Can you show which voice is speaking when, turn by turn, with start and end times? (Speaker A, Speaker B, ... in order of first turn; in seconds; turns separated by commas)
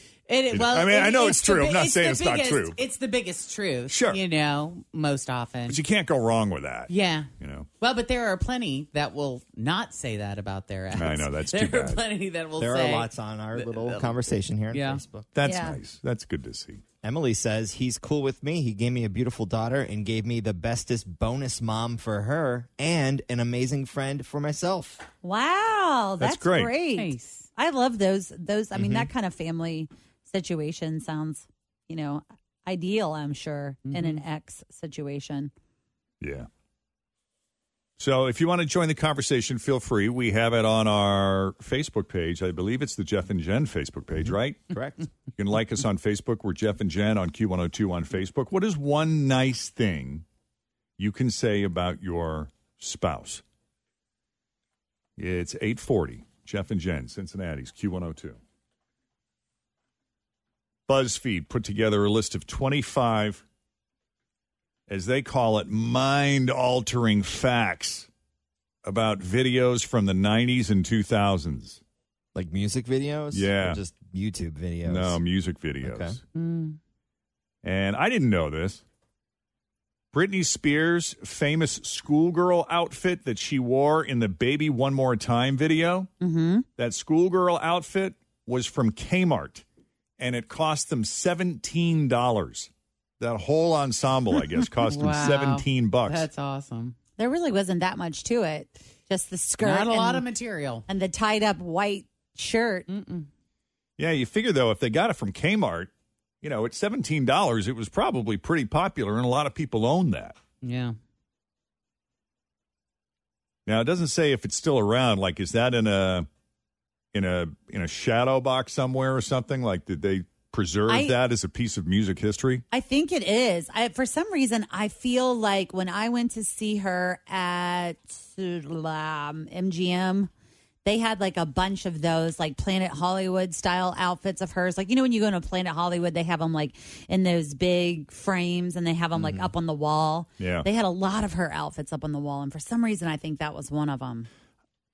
Speaker A: 0.3-5.8, Speaker B: 0.5-2.8, Speaker B: 3.9-4.2, Speaker B: 5.7-7.7, Speaker A: 6.9-15.0, Speaker B: 10.9-12.0, Speaker C: 12.6-15.3, Speaker B: 15.3-16.8, Speaker D: 15.4-15.8, Speaker C: 17.0-25.0, Speaker D: 25.2-35.5, Speaker B: 26.2-26.7, Speaker A: 26.9-27.5, Speaker C: 28.7-29.1, Speaker A: 33.9-34.2, Speaker B: 36.2-36.5, Speaker B: 38.0-44.7, Speaker C: 44.7-45.0, Speaker B: 45.3-50.2, Speaker B: 51.0-53.4, Speaker B: 55.2-58.4, Speaker B: 60.9-63.4, Speaker B: 64.9-68.1, Speaker B: 68.8-71.8, Speaker C: 72.3-75.2, Speaker B: 73.3-73.8, Speaker B: 74.8-76.2, Speaker C: 75.8-76.2, Speaker A: 76.3-76.8, Speaker B: 77.6-78.8, Speaker B: 80.1-86.1, Speaker D: 86.2-86.7, Speaker B: 86.8-89.6, Speaker B: 90.2-96.3, Speaker A: 94.8-97.0, Speaker D: 97.2-100.2, Speaker A: 99.6-100.8, Speaker D: 100.9-102.9, Speaker A: 102.9-103.3, Speaker B: 104.0-105.9, Speaker B: 106.4-110.4, Speaker A: 110.6-111.0, Speaker B: 113.7-116.3, Speaker B: 117.1-122.6, Speaker D: 120.9-121.1, Speaker D: 122.7-130.3, Speaker D: 130.8-144.3, Speaker C: 139.2-139.5, Speaker B: 140.4-140.7